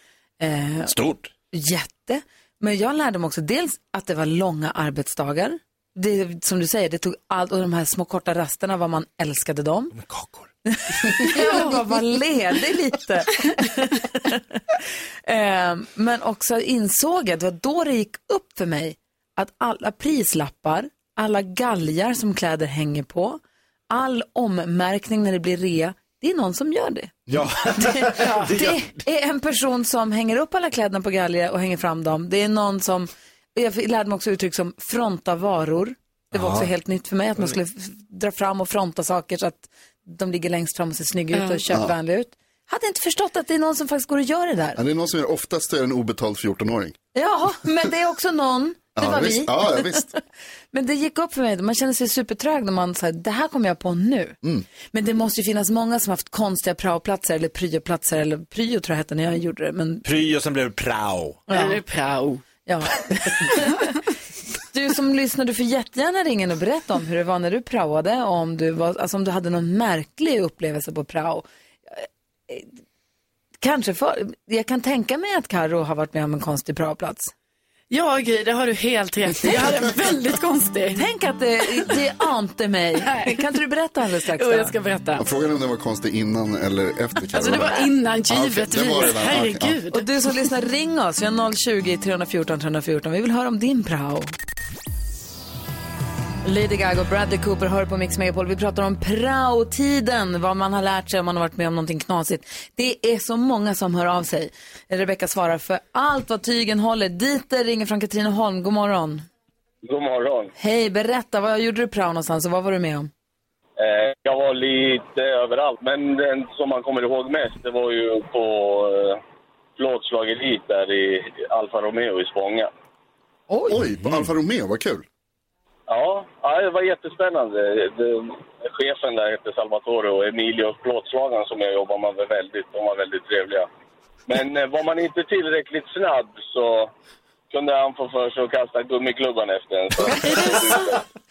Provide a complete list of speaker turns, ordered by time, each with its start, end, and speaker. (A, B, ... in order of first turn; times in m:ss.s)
0:00.4-0:00.9 A
0:00.9-0:01.3 B
0:01.5-0:09.9 A
0:09.9-0:10.5 B
0:10.6-0:27.1 A
0:27.3-0:28.8 B
0:27.7-0:44.8 A
0:28.2-0:28.5 C
0:36.3-0:36.7 B
0:41.3-0:41.6 C
0:44.8-0:46.9 D
0:47.1-0:50.2 A
0:49.0-0:50.1 D
0:50.7-0:54.4 A
0:54.9-1:00.0 A
1:00.0-1:01.5 B
1:01.5-1:01.8 A
1:01.5-1:02.4 C
1:02.6-1:04.0 A
1:04.7-1:12.7 A
1:13.6-1:17.3 A
1:17.9-1:21.0 C
1:20.9-1:24.7 A
1:23.0-1:23.4 C
1:24.3-1:25.2 C
1:25.2-1:29.8 D
1:27.3-1:30.1 C
1:29.9-1:34.3 A
1:36.4-1:49.2 A
1:49.8-1:50.5 E
1:50.6-1:53.1 A
1:53.8-1:59.2 E
1:59.8-2:02.7 E
2:03.5-2:03.8 A
2:03.7-2:05.0 D
2:04.0-2:04.2 B
2:05.9-2:13.7 E
2:14.3-2:16.9 E
2:17.5-2:21.0 E
2:20.1-2:20.4 A